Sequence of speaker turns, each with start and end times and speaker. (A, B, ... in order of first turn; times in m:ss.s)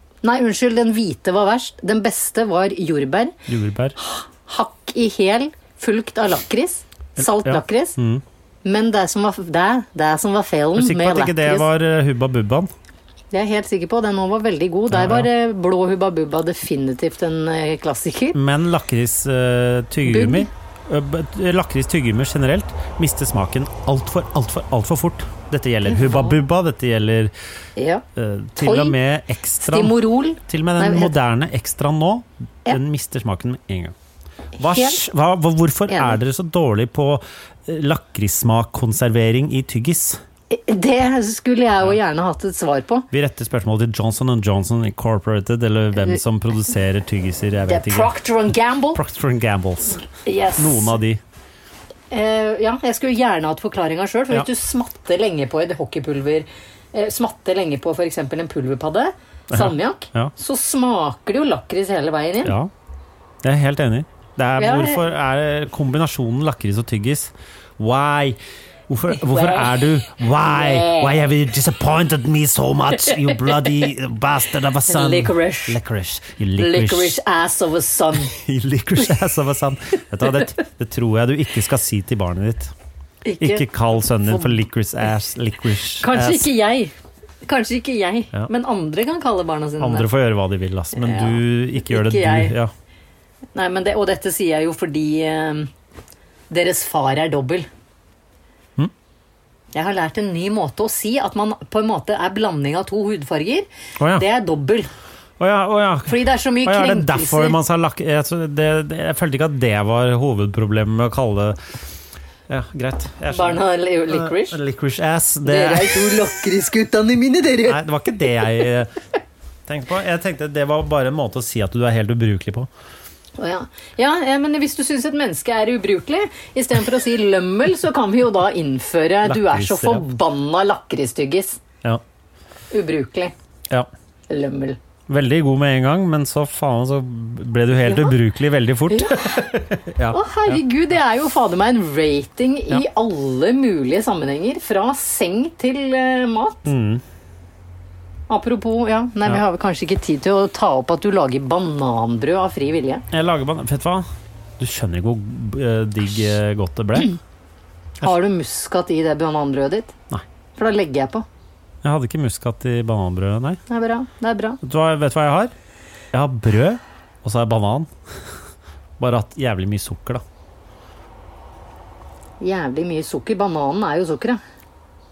0:00.2-0:03.3 A
0:03.5-0:04.0 B
0:04.0-0:08.0 A
0:07.2-0:08.2 B
0:08.6-0:11.7 A
0:10.8-0:12.7 B
0:13.3-0:18.4 A
0:14.9-0:15.3 B
0:18.3-0:27.3 B
0:20.1-0:20.5 A
0:25.9-0:26.4 A
0:27.8-0:28.0 A
0:28.2-0:34.0 B
0:28.6-0:29.0 A
0:29.6-0:31.1 A
0:34.6-0:40.2 B
0:34.6-0:35.1 A
0:35.9-0:36.2 A
0:40.5-0:43.1 A
0:43.1-0:48.1 B
0:47.7-0:49.0 A
0:48.9-0:50.1 B
0:50.1-0:51.0 A
0:50.6-0:51.2 B
0:52.1-1:02.6 A
0:59.5-1:00.3 B
1:02.4-1:02.7 B
1:03.4-1:17.2 B
1:04.6-1:05.0 A
1:09.2-1:11.2 A
1:13.0-1:13.5 A
1:14.9-1:15.8 A
1:16.6-1:18.3 A
1:18.3-1:22.7 B
1:23.2-1:23.7 A
1:23.4-1:26.5 B
1:24.2-1:24.6 A
1:26.0-1:26.9 A
1:27.4-1:30.1 A
1:29.8-1:32.7 B
1:31.0-1:32.6 A
1:33.6-1:35.7 A
1:36.5-1:37.7 A
1:39.7-1:44.9 A
1:44.0-1:44.2 B
1:45.4-1:51.6 B
1:46.1-1:47.6 A
1:52.5-1:56.3 B
1:53.3-1:54.6 A
1:55.5-1:57.8 A
1:57.7-1:58.9 B
1:59.7-2:02.7 B
2:03.4-2:11.6 A
2:09.2-2:10.0 B
2:12.7-2:13.3 A
2:14.3-2:14.8 A
2:15.1-2:20.6 B
2:17.8-2:18.2 A
2:18.9-2:19.5 A
2:20.1-2:26.7 A
2:26.7-2:27.0 B
2:28.3-2:33.0 A
2:33.1-2:34.1 B
2:34.6-2:37.1 B
2:38.0-2:39.9 A
2:40.6-2:41.3 A
2:41.8-2:43.6 B
2:43.7-2:44.6 A
2:44.6-2:45.5 B
2:46.1-2:47.9 B
2:49.0-2:50.2 B
2:52.4-2:54.4 A